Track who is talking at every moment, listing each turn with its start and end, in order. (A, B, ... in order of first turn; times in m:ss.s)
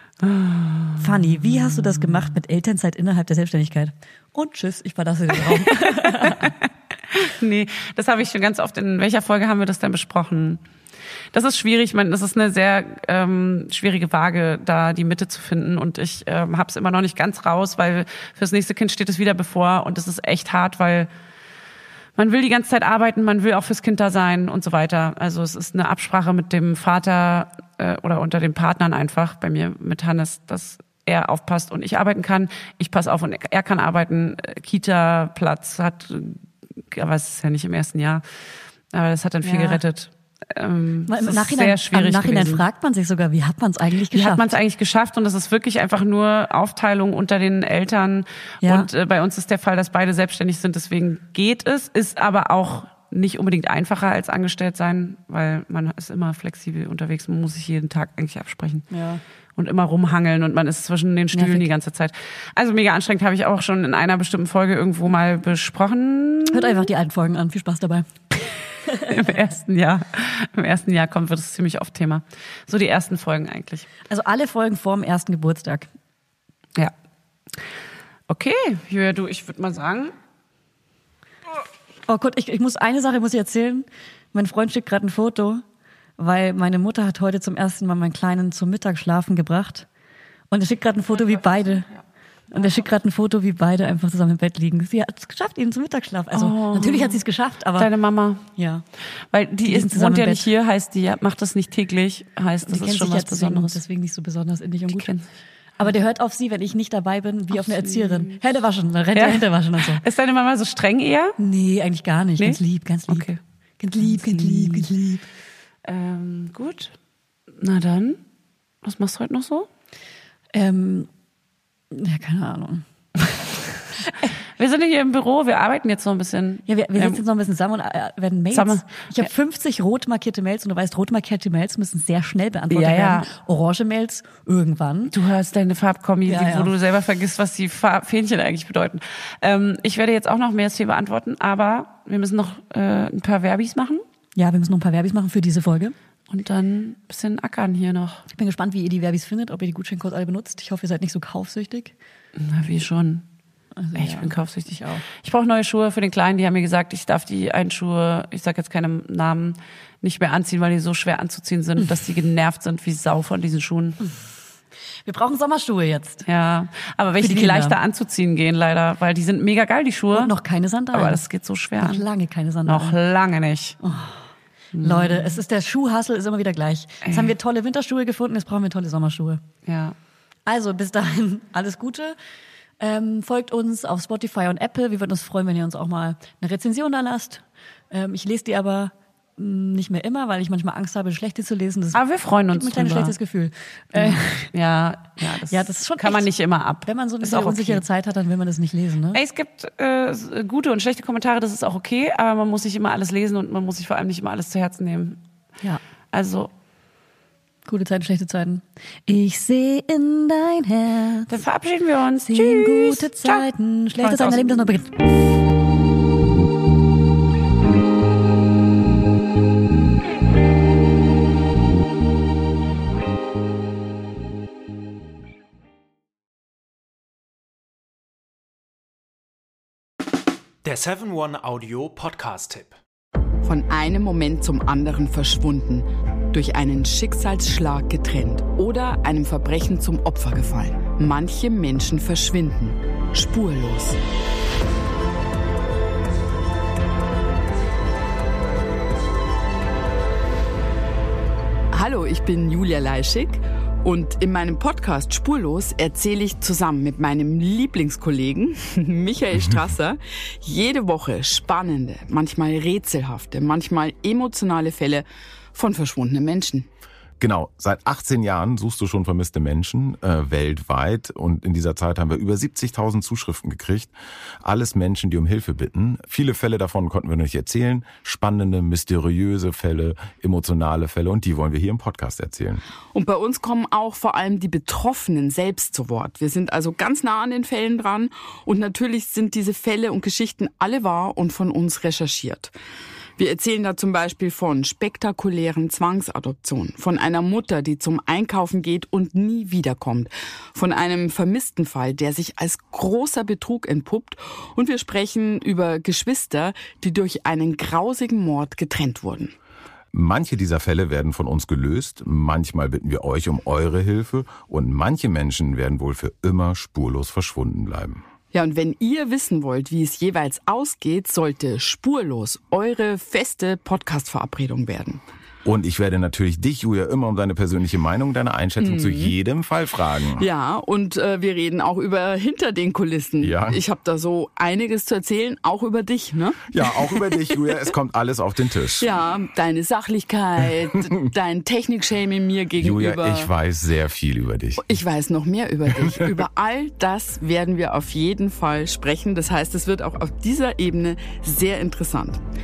0:00.2-0:02.0 A
0:01.0-0:06.5 B
0:05.4-0:10.6 A
0:11.3-0:21.1 A
0:22.2-0:38.2 A
0:38.9-0:42.6 A
0:39.4-0:39.8 B
0:41.1-0:44.5 B
0:44.1-0:58.9 A
0:48.6-0:48.9 B
0:58.9-0:59.2 B
0:59.6-1:06.9 A
1:01.3-1:01.7 B
1:06.5-1:08.1 B
1:08.4-1:13.9 A
1:08.8-1:09.3 B
1:14.1-1:15.9 B
1:18.3-1:20.1 A
1:22.1-1:25.6 B
1:26.2-1:29.9 B
1:30.5-1:31.9 B
1:32.5-1:37.9 B
1:36.3-1:37.2 A
1:37.8-1:38.4 A
1:38.4-1:38.8 B
1:39.3-1:43.8 A
1:39.6-1:40.5 B
1:42.6-1:45.1 B
1:44.9-1:45.3 A
1:45.8-1:50.0 B
1:47.5-1:48.4 A
1:49.1-1:51.4 A
1:51.4-1:53.3 B
1:52.4-1:53.4 A
1:53.8-1:55.2 B
1:54.0-1:54.9 A
1:55.8-1:56.9 A
1:57.6-1:58.2 A
1:58.8-1:59.7 A
2:00.5-2:01.1 B
2:01.9-2:03.4 B
2:04.6-2:07.2 A
2:06.6-2:15.1 B
2:08.5-2:09.3 A
2:12.7-2:13.3 A
2:15.1-2:24.0 A
2:16.2-2:16.7 B
2:24.4-2:25.9 B
2:26.3-2:28.2 A
2:28.3-2:31.9 B
2:32.4-2:33.2 A
2:33.8-2:35.0 B
2:33.9-2:44.0 A
2:45.0-2:46.2 B
2:46.2-2:50.3 A
2:47.2-2:47.8 B
2:50.1-2:51.2 B
2:50.9-2:52.0 A
2:51.8-2:53.0 B
2:52.6-2:53.8 A
2:53.8-2:54.2 B
2:54.7-2:55.3 A
2:54.8-2:59.4 B
2:57.0-2:57.3 A
2:59.6-2:59.9 A
3:00.4-3:02.2 B
3:02.8-3:14.5 B
3:11.9-3:13.1 A
3:13.9-3:17.8 A
3:15.5-3:16.3 B
3:16.8-3:19.2 B
3:19.1-3:25.2 A
3:26.1-3:26.5 A
3:27.6-3:31.4 B
3:31.3-3:33.4 A
3:32.3-3:35.0 B
3:34.0-3:34.6 A
3:50.6-3:52.8 C
3:53.4-4:04.0 D
4:11.7-4:26.7 D
4:27.2-4:42.6 E
4:42.9-4:52.5 D
4:53.2-5:09.3 D
5:09.9-5:18.0 E
5:18.3-5:25.0 D
5:25.4-5:30.2 E
5:28.6-5:29.1 D
5:30.2-5:37.6 D
5:33.2-5:33.6 E
5:36.5-5:38.9 E
5:38.8-5:43.3 D
5:42.6-5:44.6 E
5:44.6-5:52.2 D